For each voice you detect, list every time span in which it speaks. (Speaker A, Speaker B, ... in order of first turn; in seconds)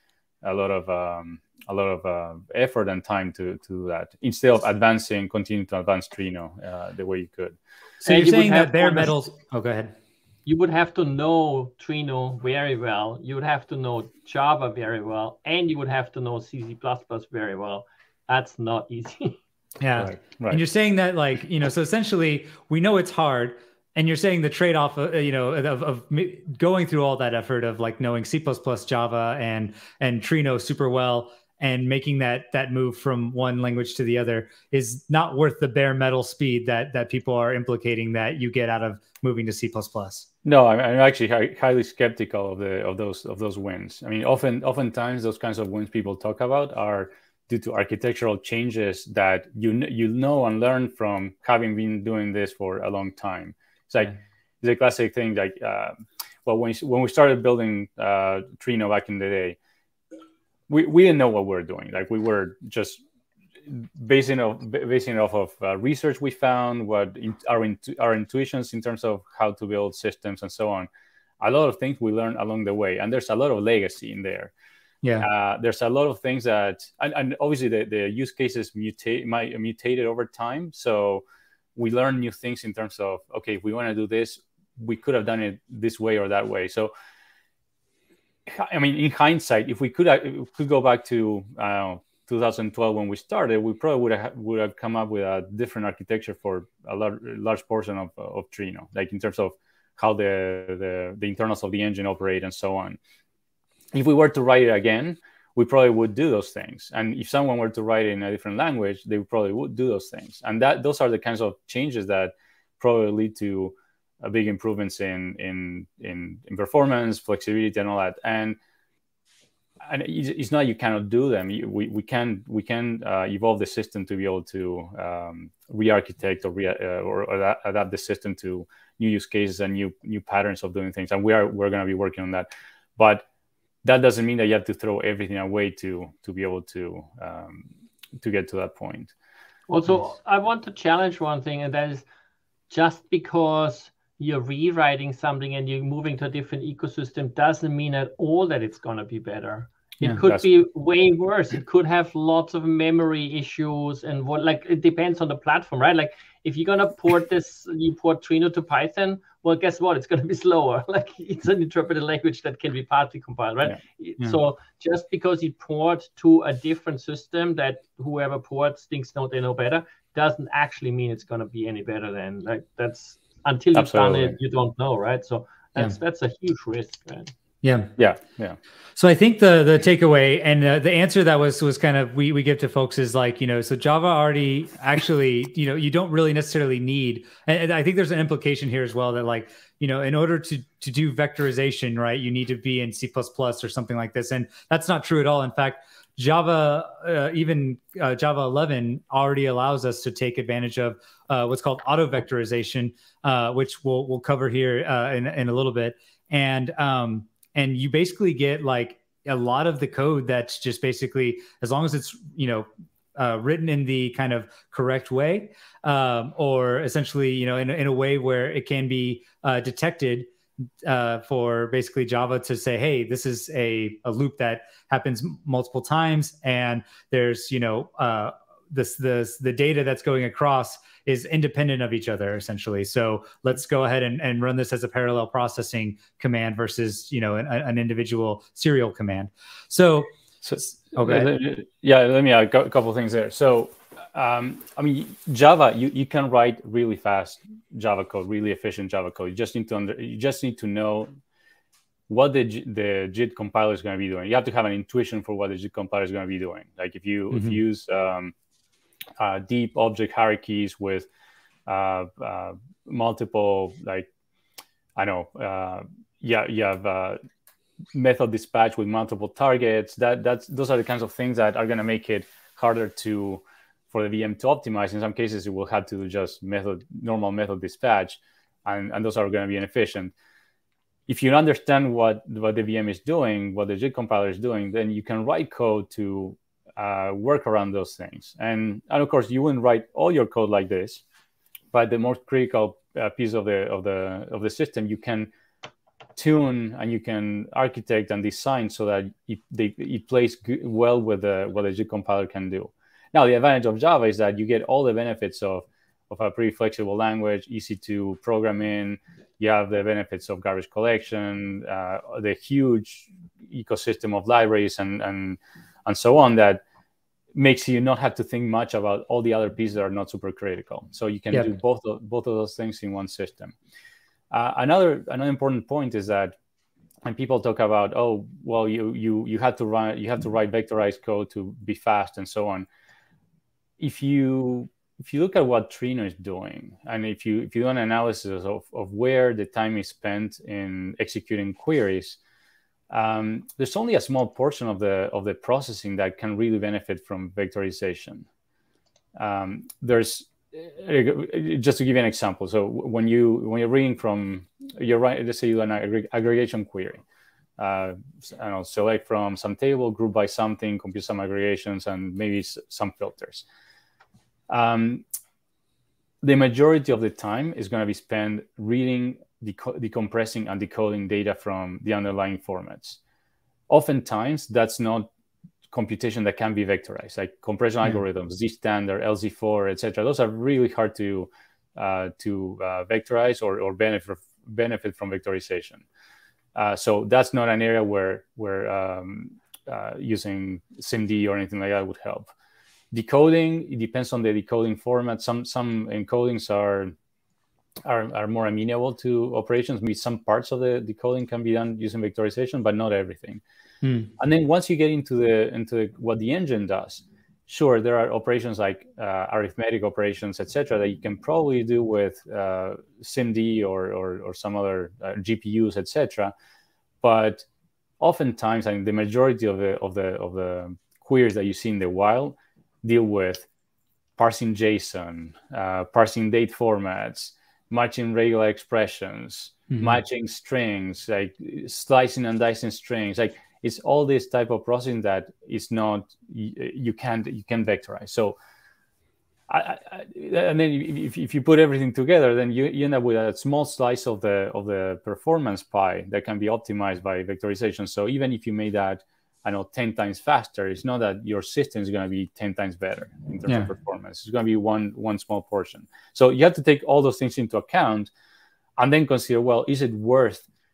Speaker A: 0.4-7.6, 20.0-20.6, 40.5-59.6, 60.7-63.0, 63.7-70.9, 71.4-74.5, 75.2-81.2, 81.8-86.9, 88.5-103.0, 103.9-118.6, 119.8-133.2, 133.8-139.2, 173.8-174.4, 178.0-178.6, 240.4-251.1, 252.1-258.3, 259.2-261.1, 261.7-264.1, 265.0-267.2, 267.9-280.1, 281.1-291.0, 291.7-295.3, 296.2-316.6, 317.4-323.6, 324.3-326.4, 327.0-332.7, 333.8-342.2, 342.9-348.3, 349.2-357.0, 357.6-363.4, 364.5-365.0, 366.2-373.0, 373.7-375.1, 375.7-385.9, 386.6-392.3, 392.9-396.9, 397.8-403.4, 404.2-416.3, 417.0-417.5, 418.0-423.5, 424.2-438.4, 439.5-458.1, 458.8-460.4
Speaker B: 8.0-9.9, 19.8-40.3, 177.6-177.9, 179.0-220.3, 220.8-241.3, 257.3-257.6, 403.8-404.1, 429.7-430.0
Speaker C: 8.0-9.2, 10.5-19.4, 139.7-142.1, 142.7-177.3